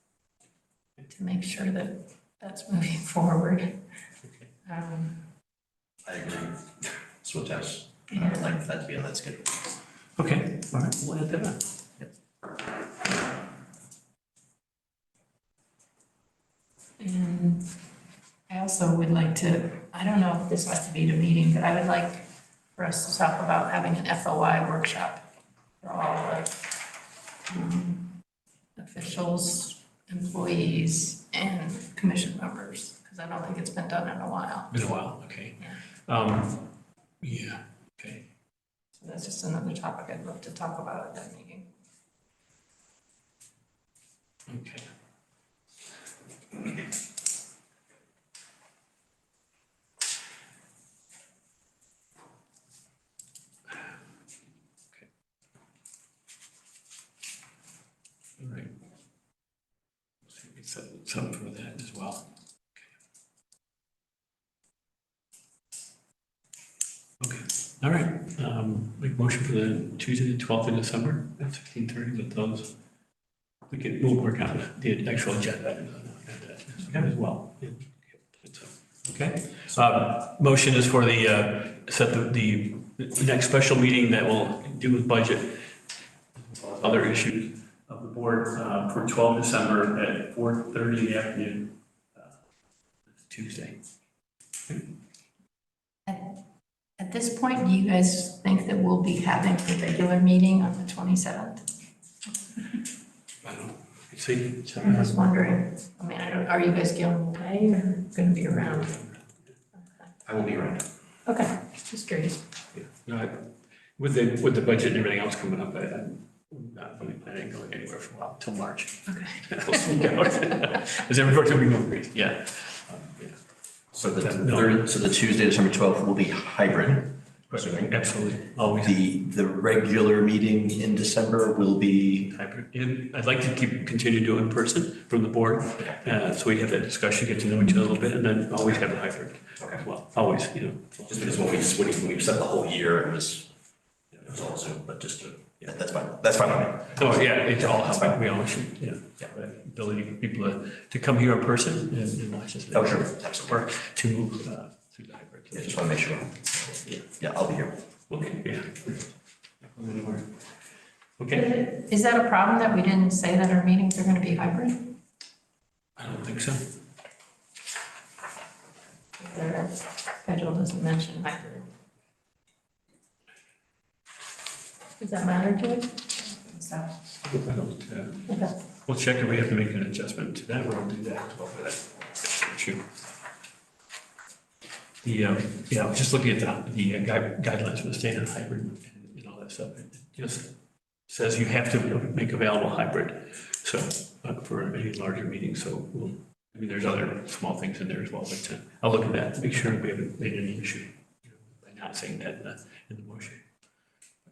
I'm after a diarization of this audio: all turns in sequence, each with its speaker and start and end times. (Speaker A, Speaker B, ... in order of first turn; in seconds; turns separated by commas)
Speaker A: 1.1-3.8, Speaker A: 4.7-5.2, Speaker B: 6.1-6.7, Speaker B: 7.2-9.7, Speaker C: 10.2-11.6, Speaker A: 17.0-17.7, Speaker A: 18.5-25.2, Speaker A: 25.8-26.7, Speaker A: 27.5-28.1, Speaker A: 28.8-34.7, Speaker C: 34.7-36.7, Speaker C: 37.2-38.2, Speaker A: 39.0-41.7, Speaker C: 44.5-44.9, Speaker C: 58.4-58.7, Speaker C: 60.3-62.3, Speaker C: 67.2-72.8, Speaker C: 73.7-85.7, Speaker C: 86.5-92.3, Speaker C: 93.2-93.8, Speaker A: 96.1-96.4, Speaker A: 97.0-101.7, Speaker C: 103.4-105.1, Speaker A: 104.9-109.0, Speaker C: 108.7-109.1, Speaker B: 110.3-110.9, Speaker A: 111.3-112.5, Speaker C: 112.7-123.4, Speaker A: 119.1-119.4, Speaker B: 123.9-128.0, Speaker C: 124.2-124.8, Speaker C: 127.5-129.0, Speaker B: 128.8-132.3, Speaker C: 132.3-141.5, Speaker B: 141.1-143.5, Speaker B: 144.2-148.1, Speaker C: 146.9-155.9, Speaker B: 152.7-153.6, Speaker B: 155.5-156.5, Speaker B: 157.2-157.8, Speaker C: 158.1-159.0, Speaker C: 159.6-160.3, Speaker C: 161.2-161.6, Speaker A: 161.3-164.9, Speaker C: 166.0-166.6, Speaker A: 169.2-171.7, Speaker A: 175.0-177.0, Speaker C: 177.2-178.3, Speaker C: 178.8-182.8, Speaker C: 185.0-190.5, Speaker C: 191.1-203.4